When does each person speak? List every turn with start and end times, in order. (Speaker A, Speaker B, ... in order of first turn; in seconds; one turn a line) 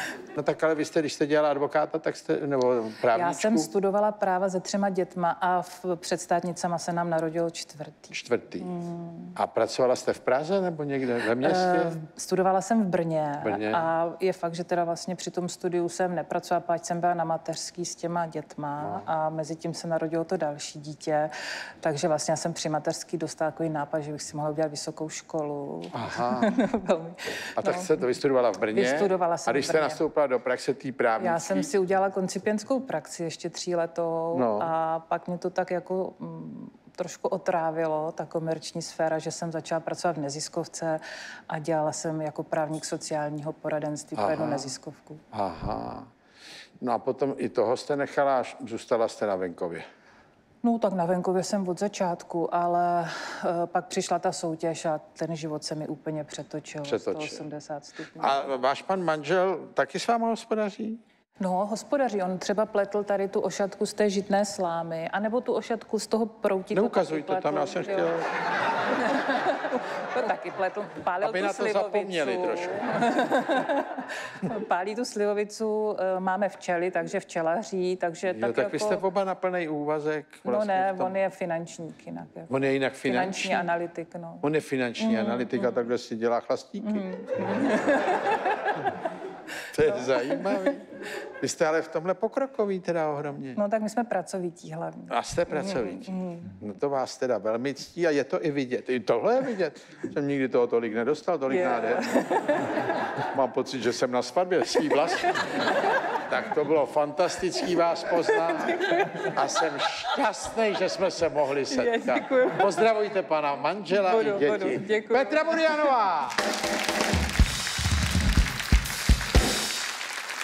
Speaker A: 0.3-3.7
Speaker B: 3.1-9.3
Speaker A: 8.1-8.7
Speaker A: 9.3-12.0
Speaker B: 11.4-28.1
Speaker A: 13.4-13.9
Speaker A: 18.8-19.1
Speaker A: 25.9-26.5
Speaker A: 27.6-31.7
Speaker B: 28.7-30.0
Speaker B: 31.2-45.2
Speaker A: 34.3-34.7
Speaker A: 44.1-44.7
Speaker A: 45.3-46.1
Speaker A: 46.8-49.8
Speaker B: 50.6-58.5
Speaker A: 56.8-57.4
Speaker A: 58.1-61.0
Speaker B: 61.4-68.2
Speaker A: 66.7-68.3
Speaker B: 68.9-79.0
Speaker A: 71.2-73.0
Speaker A: 78.2-81.2
Speaker B: 80.4-82.5
Speaker A: 82.5-83.7
Speaker B: 83.0-84.4
Speaker A: 84.4-88.2
Speaker B: 85.0-85.8
Speaker B: 86.8-88.4
Speaker A: 89.7-93.6
Speaker B: 89.9-90.7
Speaker B: 93.5-96.5
Speaker A: 95.1-102.3
Speaker B: 101.5-103.0
Speaker A: 103.2-105.4
Speaker A: 106.1-116.4
Speaker B: 108.3-109.3
Speaker B: 111.7-112.8
Speaker B: 113.9-115.9